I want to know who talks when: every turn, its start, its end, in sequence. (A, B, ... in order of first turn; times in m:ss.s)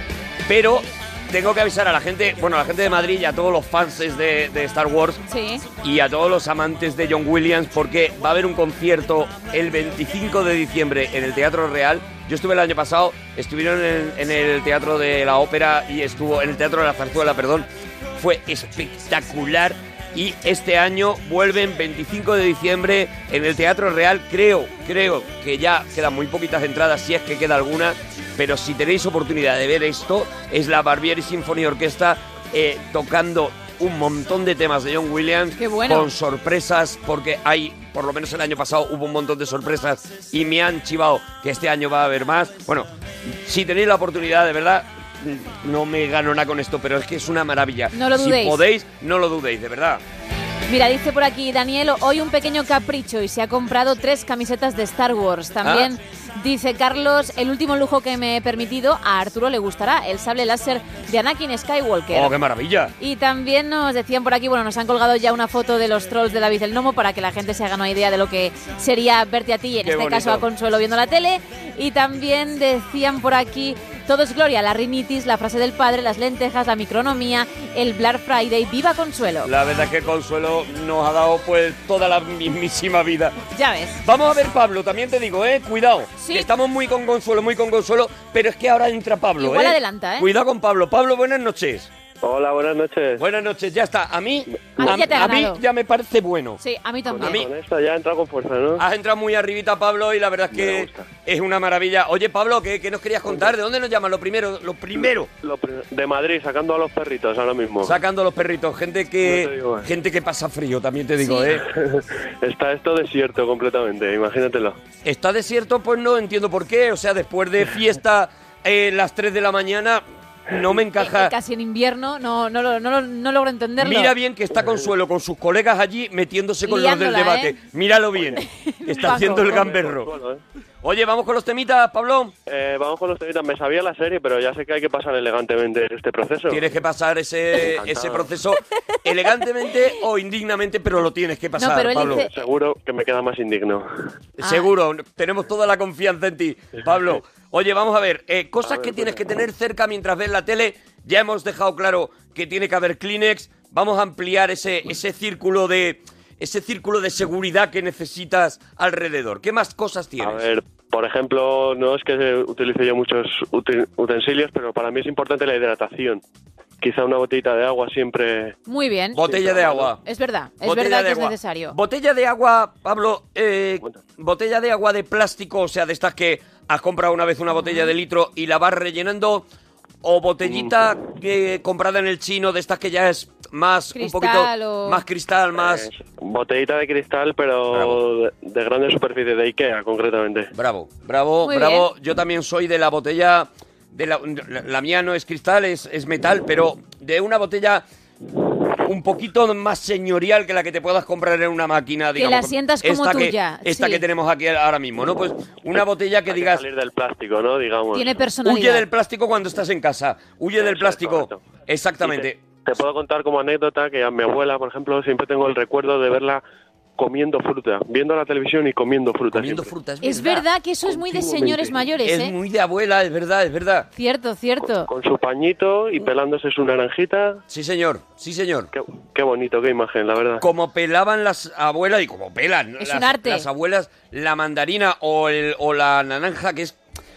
0:00.5-0:05.2 A
0:05.3-0:05.7 B
0:05.8-0:50.0 A
0:35.6-0:36.1 B
0:47.9-0:48.6 B
0:50.7-1:02.3 B
0:55.6-0:55.9 A
1:02.1-1:02.9 A
1:03.0-1:19.5 B
1:09.8-1:10.5 A
1:19.4-1:23.4 A
1:23.5-1:24.0 B
1:24.0-1:31.9 A
1:26.2-1:26.5 B
1:29.4-1:30.3 B
1:32.2-1:33.2 C
1:33.2-1:36.6 A
1:34.5-1:34.8 C
1:34.8-1:35.6 B
1:36.6-1:37.4 B
1:37.1-1:38.8 C
1:37.2-1:37.5 A
1:38.8-1:45.3 A
1:40.5-1:41.1 C
1:45.0-1:48.0 C
1:47.8-1:51.7 A
1:49.2-1:49.9 C
1:51.2-1:51.5 B
1:51.5-1:54.8 C
1:55.0-2:01.3 A
2:01.0-2:04.1 B
2:03.8-2:10.1 A
2:04.6-2:04.8 C
2:06.6-2:07.6 B
2:08.1-2:08.4 C
2:08.4-2:09.7 B
2:09.1-2:10.4 C
2:10.8-2:12.4 A
2:12.5-2:16.7 C
2:16.5-2:22.3 A
2:17.6-2:18.3 C
2:21.6-2:22.4 B
2:22.0-2:23.9 C
2:24.4-2:40.5 A
2:24.4-2:24.7 B
2:28.7-2:29.2 C
2:40.2-2:46.2 C
2:46.8-2:48.6 C
2:48.7-2:49.2 B
2:49.1-2:50.0 A
2:49.2-2:49.9 C
2:50.0-2:51.8 B
2:50.6-2:59.5 A
2:57.5-2:57.9 B
3:00.0-3:05.9 A
3:00.4-3:00.8 C
3:04.0-3:05.0 B
3:05.6-3:10.5 C
3:07.7-3:08.0 A
3:10.5-3:17.8 A
3:11.4-3:11.9 B
3:18.8-3:26.6 A
3:22.2-3:24.0 B
3:26.3-3:28.2 C
3:27.9-3:28.9 B
3:28.4-3:32.4 A
3:30.6-3:31.5 C
3:32.0-3:36.4 C
3:37.0-3:39.7 C
3:39.3-3:40.5 A
3:40.0-3:42.4 B
3:41.1-3:41.7 C
3:42.0-3:43.9 A
3:44.0-3:44.9 B
3:44.7-3:47.4 C
3:47.5-3:48.7 A
3:48.7-3:50.4 C
3:50.4-3:56.8 A
3:52.8-3:53.5 B